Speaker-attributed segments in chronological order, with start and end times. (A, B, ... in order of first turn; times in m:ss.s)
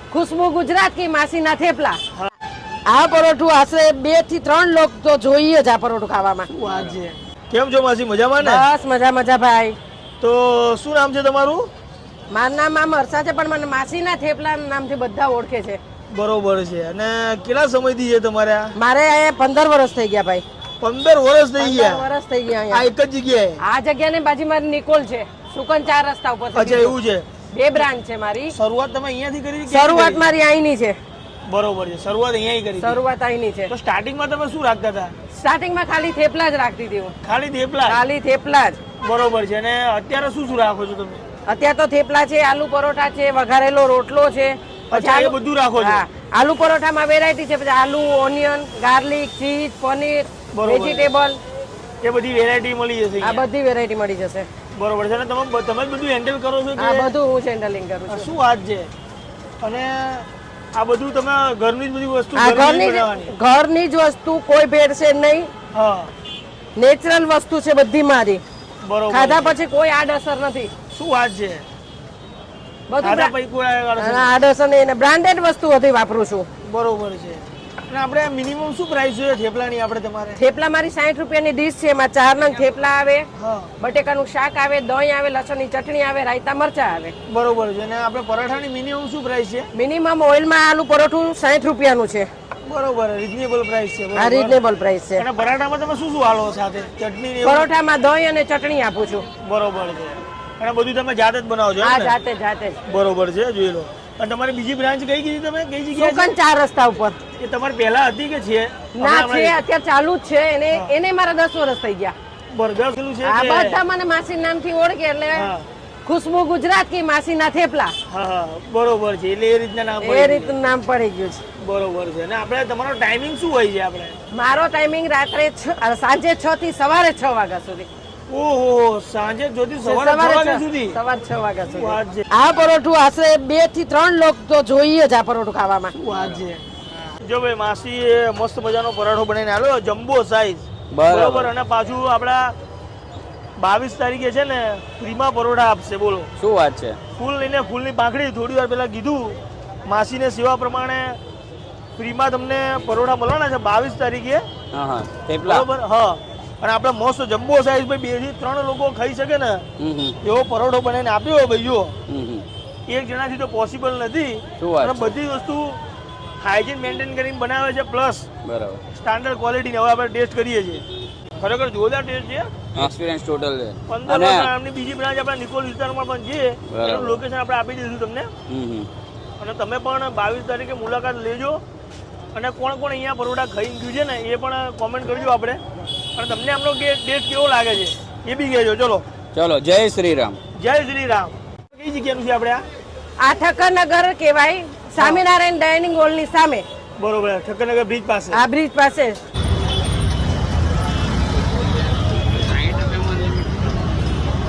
0:00.1-0:02.0 A
0:02.9-0:06.5 A
0:06.5-0:08.7 B
0:06.7-0:06.9 C
0:08.4-0:09.8 A
0:10.2-0:11.7 B
0:12.3-0:15.8 A
0:16.1-0:18.7 B
0:18.8-0:20.4 A
0:20.8-0:22.0 B
0:21.6-0:22.9 A
0:22.7-0:23.6 B
0:23.6-0:27.0 A
0:26.5-0:27.3 B
0:27.5-0:28.6 A
0:28.5-0:30.2 B
0:29.7-0:31.0 A
0:31.5-0:33.0 B
0:32.8-0:33.7 A
0:33.7-0:35.1 B
0:35.3-0:37.1 A
0:37.2-0:38.0 B
0:37.8-0:38.8 A
0:39.0-0:41.2 B
0:41.4-0:51.4 A
0:44.9-0:46.0 B
0:50.5-0:51.1 B
0:52.0-0:53.4 B
0:53.2-0:54.5 A
0:54.7-0:57.1 B
0:56.8-0:58.3 A
0:58.1-0:58.9 B
0:59.6-1:03.3 B
1:02.4-1:05.5 A
1:05.7-1:06.1 B
1:06.8-1:08.4 A
1:08.8-1:09.6 B
1:09.1-1:10.7 A
1:10.9-1:11.6 B
1:12.9-1:13.3 A
1:13.0-1:14.3 B
1:14.0-1:16.5 A
1:16.6-1:20.4 B
1:20.4-1:23.3 A
1:23.4-1:23.7 B
1:23.8-1:27.1 A
1:27.3-1:29.7 B
1:29.7-1:32.3 A
1:32.6-1:34.6 B
1:34.2-1:35.2 A
1:35.2-1:37.7 B
1:37.4-1:39.3 A
1:39.4-1:42.2 B
1:41.8-1:42.8 A
1:42.9-1:46.3 B
1:45.9-1:47.2 A
1:47.4-1:49.6 B
1:49.0-1:52.1 A
1:52.5-1:53.8 B
1:53.2-1:55.5 A
1:55.3-1:55.7 B
1:56.0-1:57.9 A
1:58.1-2:00.6 B
2:00.0-2:01.4 A
2:01.6-2:04.2 B
2:04.3-2:07.9 A
2:08.3-2:11.0 B
2:09.8-2:15.9 A
2:11.6-2:12.2 B
2:15.9-2:16.6 B
2:16.1-2:16.4 C
2:17.2-2:22.6 B
2:20.9-2:21.5 C
2:23.6-2:26.3 B
2:26.4-2:27.0 C
2:27.2-2:31.2 B
2:32.0-2:34.4 B
2:34.7-2:35.7 C
2:35.4-2:39.7 B
2:39.8-2:40.2 C
2:40.2-2:42.0 B
2:42.1-2:42.4 C
2:42.9-2:45.8 B
2:44.6-2:45.1 C
2:46.4-2:48.3 B
2:48.4-2:48.8 C
2:48.9-2:50.9 B
2:51.4-2:52.5 B
2:52.8-2:54.5 C
2:53.9-2:58.3 B
2:56.7-2:57.2 C
2:58.5-2:58.9 C
2:59.4-3:01.6 B
3:02.3-3:05.6 B
3:06.2-3:09.0 B
3:09.3-3:10.4 C
3:10.6-3:12.6 B
3:13.2-3:16.6 A
3:15.0-3:15.2 B
3:17.0-3:18.4 B
3:18.3-3:19.2 A
3:22.4-3:23.7 C